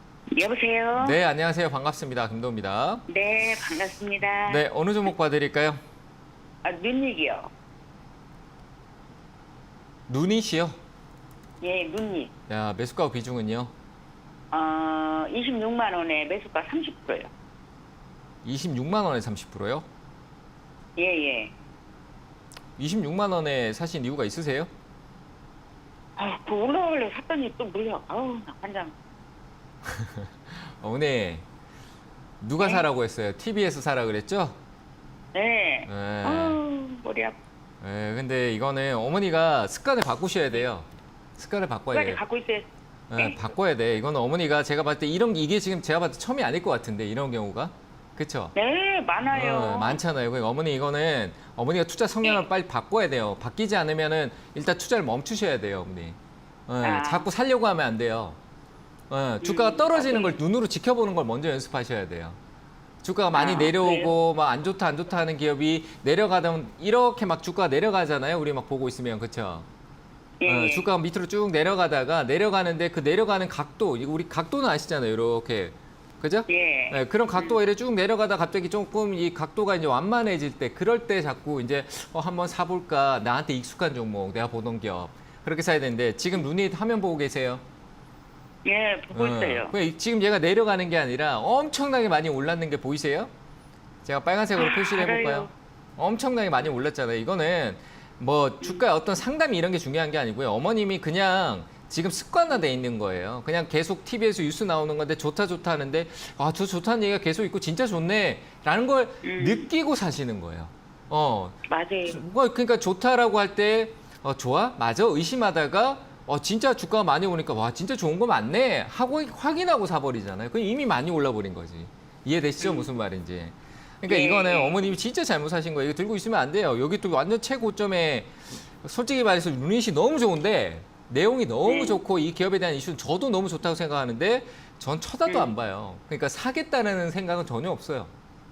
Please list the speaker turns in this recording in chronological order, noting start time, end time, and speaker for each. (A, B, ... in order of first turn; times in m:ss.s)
0:00.3-0:01.2 A
0:01.0-0:03.0 B
0:03.1-0:04.6 A
0:04.4-0:05.8 B
0:06.6-0:07.5 A
0:10.1-0:10.8 B
0:11.6-0:12.3 A
0:12.5-0:13.7 B
0:14.5-0:17.3 A
0:18.4-0:19.8 B
0:21.0-0:21.5 A
0:22.8-0:24.7 B
0:26.2-0:28.9 A
0:29.8-0:31.4 B
0:32.4-0:34.6 B
0:35.3-0:37.4 A
0:35.9-0:36.6 B
0:37.8-0:42.2 B
0:41.9-0:43.4 A
0:43.1-0:48.5 B
0:48.5-0:50.0 A
0:49.3-0:56.2 B
0:56.7-0:58.4 B
0:56.8-0:57.2 A
0:59.1-1:02.4 B
0:59.4-1:00.4 A
1:03.0-1:09.7 B
1:03.3-1:04.1 A
1:10.4-1:10.9 A
1:10.5-1:27.6 B
1:16.5-1:17.6 A
1:28.6-1:29.7 A
1:29.1-1:33.3 B
1:34.0-2:18.1 B
1:34.6-1:35.5 A
1:49.2-1:49.7 A
1:51.7-1:52.2 A
2:02.6-2:02.9 A
2:04.1-2:04.9 A
2:11.6-2:12.0 A
2:15.3-2:15.5 A